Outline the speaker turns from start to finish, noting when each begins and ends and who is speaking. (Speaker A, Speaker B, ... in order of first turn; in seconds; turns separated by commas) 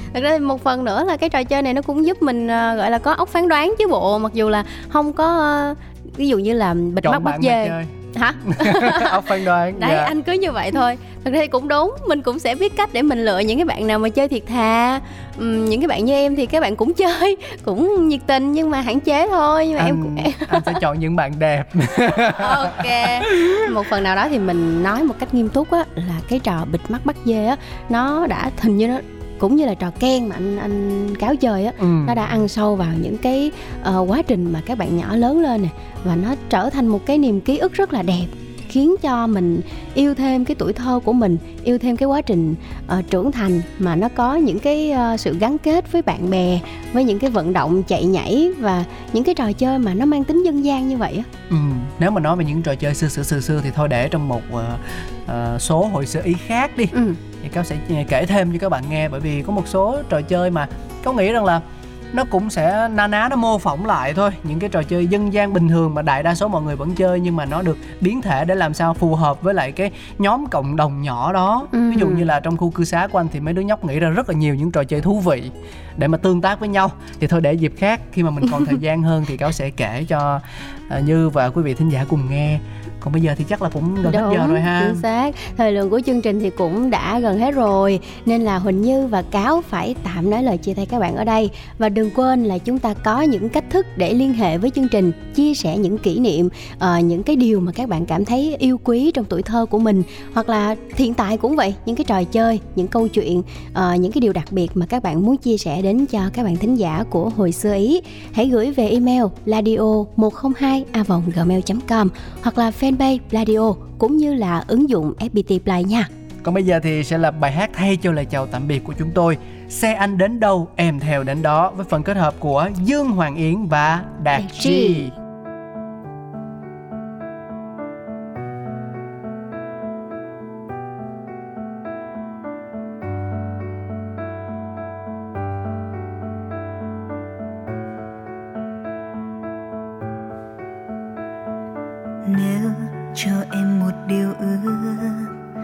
Speaker A: 0.1-20.8, Speaker B: 7.0-7.9, Speaker B: 8.4-10.1, Speaker B: 19.8-23.7, Speaker A: 22.4-51.3, Speaker B: 31.8-32.4, Speaker B: 51.5-85.0, Speaker A: 56.9-57.2, Speaker A: 71.7-72.2, Speaker A: 84.1-116.1, Speaker B: 116.4-125.1, Speaker A: 124.3-125.1, Speaker C: 142.2-145.3